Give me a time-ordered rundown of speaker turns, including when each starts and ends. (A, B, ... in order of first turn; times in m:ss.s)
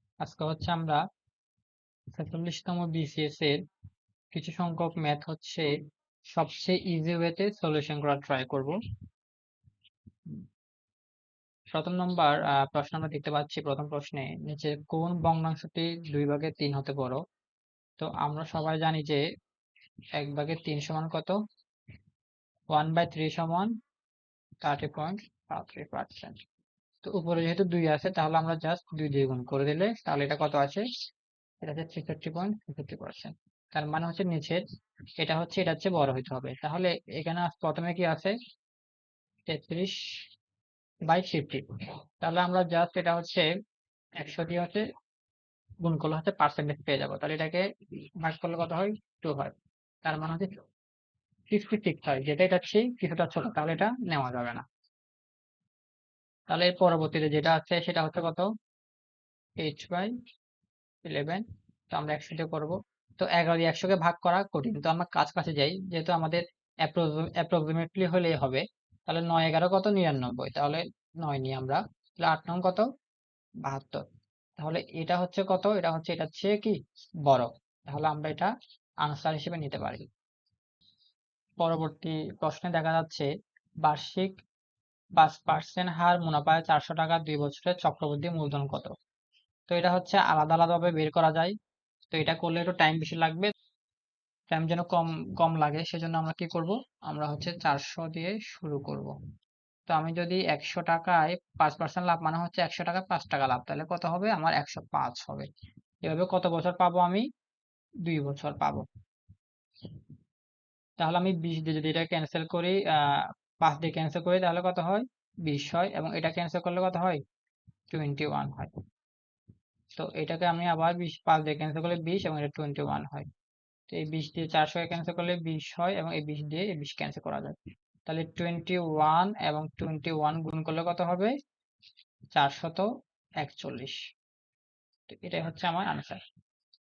0:00.2-0:01.0 A
0:02.2-0:03.6 A
0:04.3-0:05.7 A
0:06.3-0:08.8 A
0:11.7-0:17.2 A
0:18.0-0:19.2 A
0:20.2-0:21.4 A
0:22.7-0:23.7 A
0:24.6-0:26.4 A
0:27.0-0:30.8 A
0:31.6-0:34.6 A
0:35.2-0:38.4 A
0:39.5-0:40.2 A
0:41.1-0:41.7 A
0:42.2-0:43.5 A
0:44.2-0:44.8 A
0:45.8-0:50.6 A
0:51.5-0:54.6 A
0:56.5-0:58.5 A
0:59.6-1:00.1 A
1:01.0-1:12.9 A
1:13.6-1:14.0 A
1:14.6-1:20.1 A
1:21.6-1:23.3 A
1:23.8-1:24.4 A
1:25.2-1:28.9 A
1:29.7-1:31.6 A
1:32.1-1:33.5 A
1:34.5-1:39.2 A
1:39.9-1:45.5 A
1:46.0-1:47.3 A
1:48.0-1:48.9 A
1:51.0-1:57.2 A
1:57.9-1:58.7 A
2:00.0-2:03.3 A
2:03.9-2:11.3 A
2:12.3-2:12.9 A
2:13.4-2:14.0 A
2:15.1-2:16.2 A